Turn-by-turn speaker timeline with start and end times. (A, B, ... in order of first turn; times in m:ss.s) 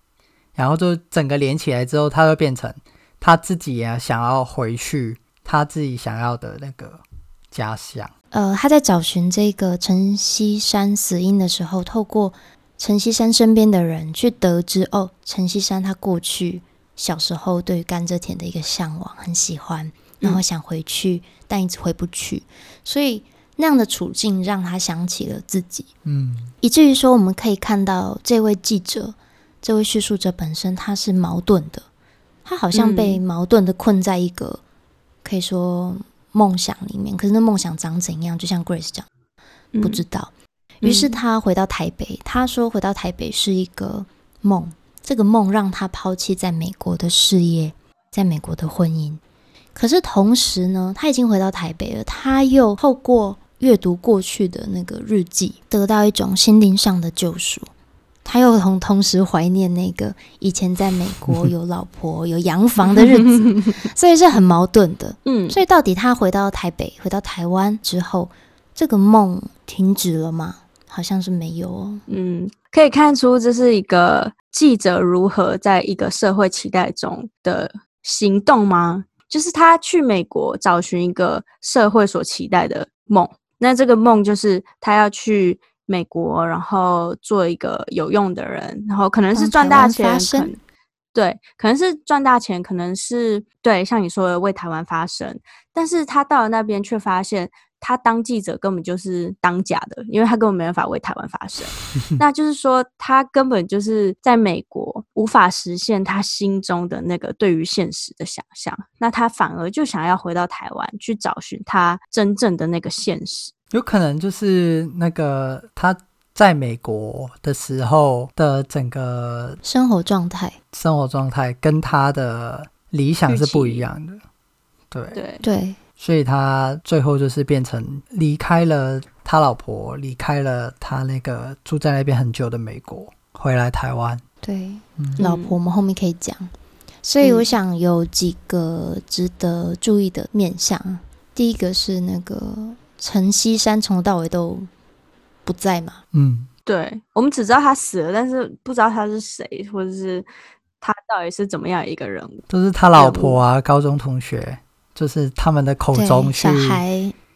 0:00.6-0:08.1 A
0:08.3-0:25.9 B
0:26.0-0:26.5 A
0:26.6-0:31.8 B
0:32.4-0:34.6 B
0:32.7-0:33.2 C
0:35.2-0:39.1 B
0:39.7-0:40.0 C
0:39.8-0:40.3 B
0:40.8-0:41.2 C
0:40.8-0:49.2 B
0:49.7-0:57.7 B
0:58.2-1:12.0 B
1:03.0-1:03.7 C
1:05.2-1:05.6 C
1:12.1-1:30.6 C
1:29.3-1:30.5 B
1:31.1-1:53.5 C
1:53.7-1:59.6 A
1:59.6-2:00.6 B
2:00.7-2:04.2 A
2:03.3-2:03.8 C
2:04.9-2:05.2 A
2:05.1-2:05.4 C
2:05.4-2:05.8 B
2:06.0-2:14.2 A
2:14.4-2:16.5 B
2:15.2-2:15.6 C
2:17.0-2:24.7 B
2:17.2-2:17.5 C
2:25.4-2:26.0 B
2:26.1-2:26.5 A
2:26.6-2:30.3 C
2:30.8-2:32.4 C
2:32.5-2:36.8 A
2:32.9-2:33.4 C
2:35.9-2:37.1 B